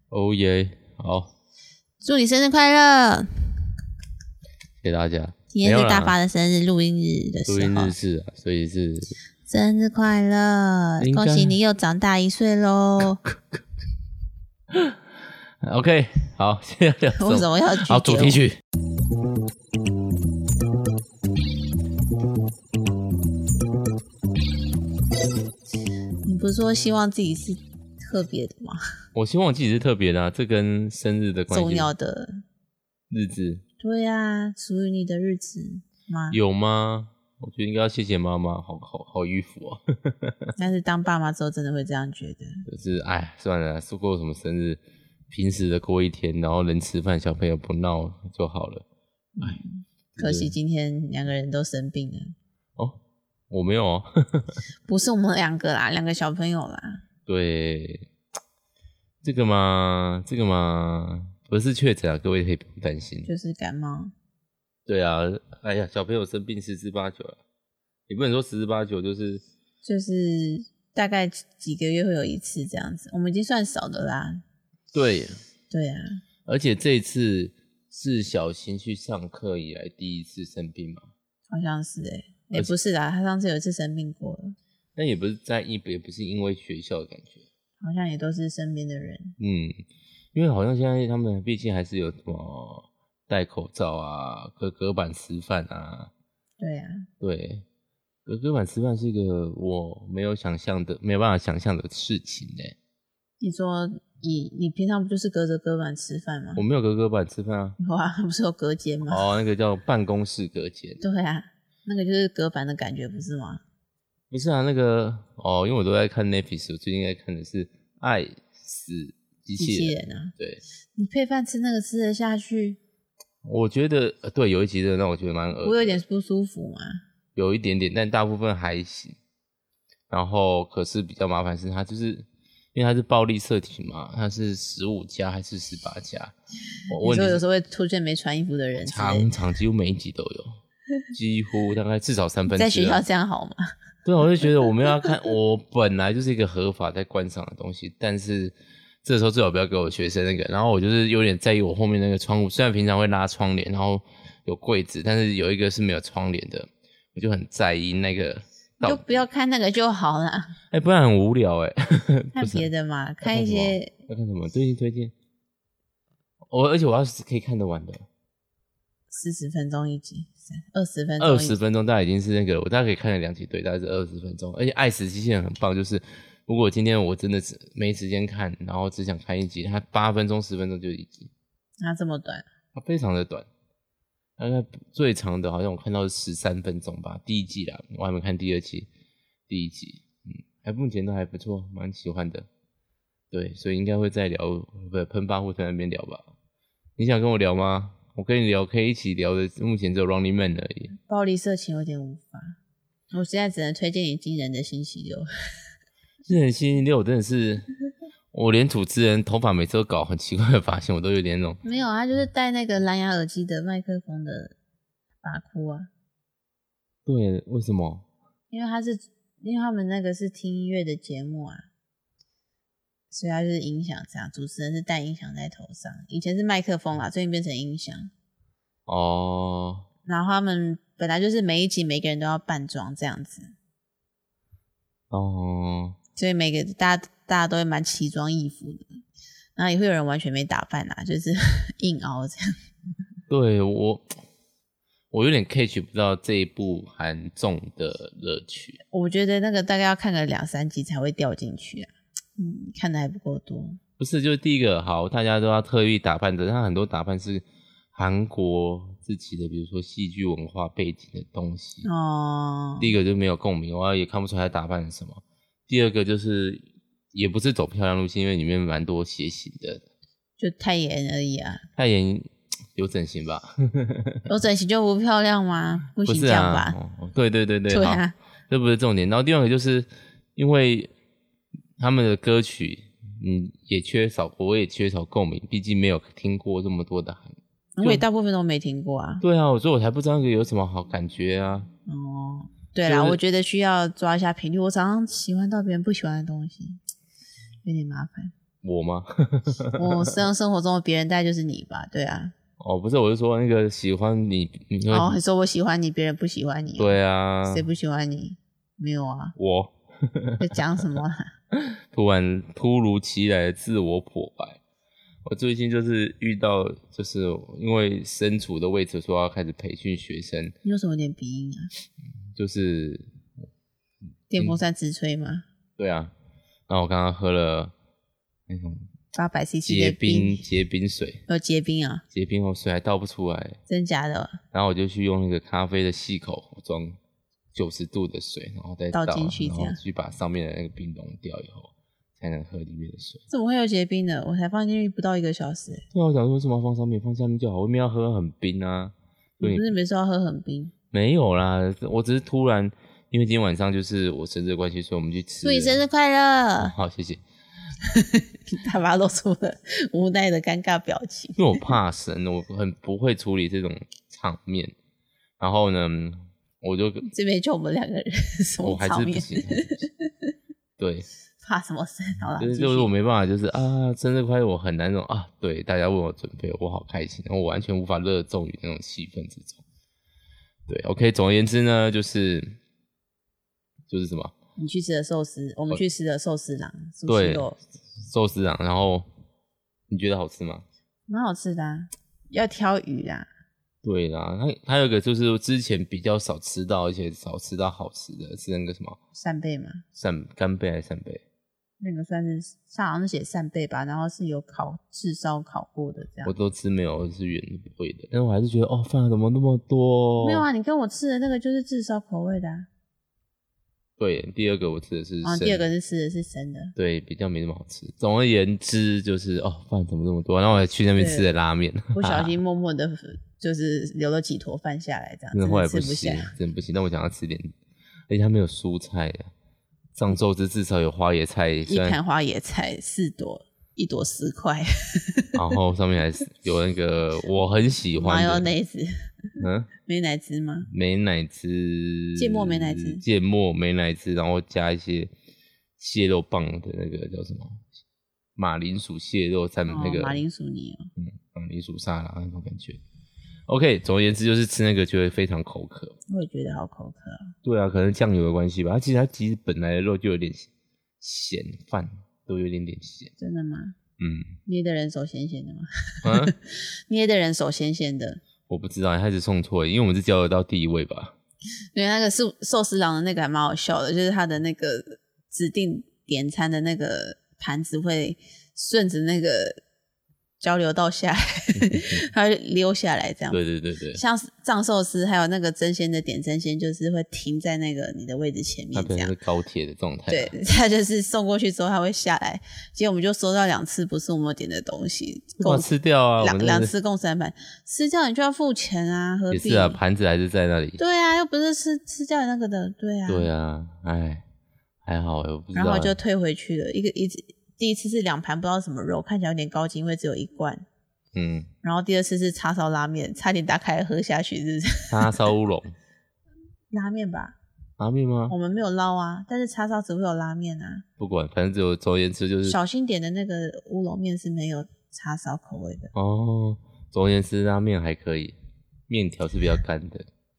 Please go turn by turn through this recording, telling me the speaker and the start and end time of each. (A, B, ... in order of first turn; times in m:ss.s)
0:00.1-0:01.3 A
0:02.0-0:03.3 B
0:04.8-0:06.2 A
0:05.5-0:08.0 B
0:07.5-0:09.2 A
0:09.5-0:13.2 B
0:11.0-0:11.6 A
0:14.7-0:15.0 A
0:15.6-0:18.6 A
0:17.2-0:18.4 B
0:26.2-0:28.8 B
0:29.1-0:31.9 A
0:31.5-0:32.4 B
0:33.1-0:33.6 A
0:33.8-0:36.4 B
0:36.3-0:40.5 A
0:40.6-0:42.6 B
0:42.7-0:48.8 A
0:49.4-0:52.4 B
0:50.2-0:50.5 A
0:53.5-0:54.6 A
0:54.9-0:57.0 B
0:57.3-0:58.1 A
0:59.2-1:03.3 A
1:03.3-1:04.1 B
1:04.9-1:07.4 A
1:08.1-1:09.4 A
1:09.8-1:14.4 B
1:14.9-1:15.4 A
1:15.7-1:16.2 B
1:16.5-1:21.1 A
1:21.5-1:24.6 B
1:25.0-1:27.5 A
1:27.8-1:29.4 B
1:29.4-1:29.8 A
1:30.3-1:36.1 A
1:36.6-1:37.1 B
1:37.2-1:37.6 A
1:38.3-1:42.8 A
1:43.4-1:46.6 B
1:46.6-1:47.8 A
1:47.8-1:49.2 B
1:49.0-1:51.0 A
1:51.0-1:53.6 B
1:54.3-2:00.6 A
1:59.6-2:00.3 B
2:01.0-2:02.8 B
2:03.4-2:06.0 A
2:05.6-2:07.0 B
2:07.4-2:09.2 A
2:10.1-2:16.3 A
2:16.9-2:17.4 A
2:17.0-2:19.3 B
2:18.8-2:20.6 A
2:21.1-2:23.0 A
2:22.5-2:23.7 B
2:24.0-2:39.2 A
2:38.8-2:40.6 B
2:40.7-2:42.7 A
2:42.4-2:43.9 B
2:43.2-2:45.1 A
2:46.5-2:48.1 A
2:49.1-2:51.6 B
2:51.2-3:01.3 A
3:01.8-3:02.5 B
3:02.7-3:03.5 A
3:04.4-3:08.9 A
3:09.5-3:12.5 A
3:13.3-3:16.3 A
3:17.0-3:20.9 A
3:21.0-3:22.6 B
3:23.1-3:25.3 B
3:26.3-3:27.7 A
3:28.3-3:31.6 A
3:31.6-3:34.6 B
3:35.2-3:35.9 B
3:37.1-3:38.1 A
3:38.5-3:41.7 B
3:43.1-3:48.1 B
3:48.9-3:49.9 A
3:50.1-3:53.5 B
3:55.1-3:56.0 A
3:56.2-3:58.9 B
3:59.6-4:02.5 B
4:03.3-4:04.2 A
4:05.1-4:08.8 A
4:08.9-4:13.8 B
4:14.0-4:21.9 A
4:21.8-4:23.0 B
4:22.8-4:29.9 A
4:30.4-4:31.6 B
4:31.8-4:34.2 A
4:34.3-4:36.8 B
4:36.0-4:40.9 A
4:37.7-4:38.1 B
4:41.8-4:48.0 A
4:47.8-4:49.2 B
4:49.2-4:51.7 A
4:51.9-4:56.8 B
4:52.8-4:53.2 A
4:57.6-4:58.3 B
4:58.6-5:00.2 A
4:59.8-5:02.3 B
5:02.6-5:05.2 A
5:04.9-5:09.4 B
5:06.8-5:07.6 A
5:09.4-5:10.8 A
5:10.4-5:11.3 B
5:11.5-5:14.6 A
5:15.3-5:20.6 A
5:20.6-5:21.7 B
5:22.4-5:23.1 A
5:24.3-5:25.4 B
5:25.8-5:26.1 A
5:26.7-5:27.7 A
5:28.5-5:28.9 A
5:29.1-5:30.4 B
5:29.7-5:31.2 A
5:31.3-5:32.0 B
5:32.1-5:33.6 A
5:33.7-5:34.4 B
5:34.5-5:37.0 A
5:37.5-5:43.3 A
5:38.9-5:39.8 B
5:43.3-5:45.8 B
5:45.9-5:49.7 A
5:49.4-5:50.7 B
5:50.9-5:55.8 A
5:55.4-5:56.8 B
5:56.6-5:57.2 A
5:57.8-6:01.4 B
6:01.4-6:04.7 A
6:05.4-6:07.1 A
6:07.1-6:10.3 B
6:08.6-6:09.9 A
6:10.8-6:11.1 A
6:11.4-6:12.9 B
6:12.4-6:19.6 A
6:20.7-6:22.6 A
6:23.9-6:24.3 A
6:24.6-6:27.6 B
6:27.1-6:29.1 A
6:29.9-6:30.6 A
6:31.1-6:33.3 B
6:33.8-6:39.0 A
6:39.1-6:39.8 B
6:40.0-6:41.2 A
6:41.8-6:46.3 B
6:46.2-6:50.5 A
6:50.2-6:52.7 B
6:54.0-6:55.7 A
6:55.2-6:56.7 B
6:56.8-7:02.4 A
7:01.0-7:01.3 B
7:01.9-7:06.3 B
7:05.3-7:07.5 A
7:08.1-7:09.3 A
7:10.0-7:12.0 A
7:11.7-7:15.4 B
7:15.3-7:18.5 A
7:18.0-7:18.9 B
7:19.4-7:19.7 A
7:19.8-7:20.7 B
7:20.7-7:25.1 A
7:22.2-7:23.0 B
7:25.8-7:27.7 A
7:28.4-7:30.2 A
7:29.7-7:30.9 B
7:31.0-7:32.8 A
7:33.5-7:36.0 A
7:36.1-7:37.3 B
7:37.4-7:40.5 A
7:41.0-7:43.1 A
7:43.2-7:43.8 B
7:44.0-7:44.4 A
7:44.5-7:48.2 B
7:46.0-7:46.3 A
7:48.5-7:51.2 A
7:51.7-7:59.6 B
8:00.4-8:03.4 B
8:01.6-8:02.0 A
8:03.3-8:04.0 A
8:03.9-8:09.2 B
8:08.7-8:10.3 A
8:10.1-8:15.7 B
8:15.4-8:16.7 A
8:16.2-8:19.8 B
8:19.3-8:20.8 A
8:20.8-8:23.3 B
8:23.1-8:24.2 A
8:24.8-8:26.0 A
8:25.5-8:30.6 B
8:31.2-8:31.5 A
8:31.6-8:35.3 B
8:34.9-8:35.8 A
8:36.7-8:37.4 B
8:37.8-8:38.4 A
8:38.3-8:40.8 B
8:41.0-8:42.6 A
8:42.5-8:45.9 B
8:45.9-8:48.4 A
8:48.9-8:50.1 A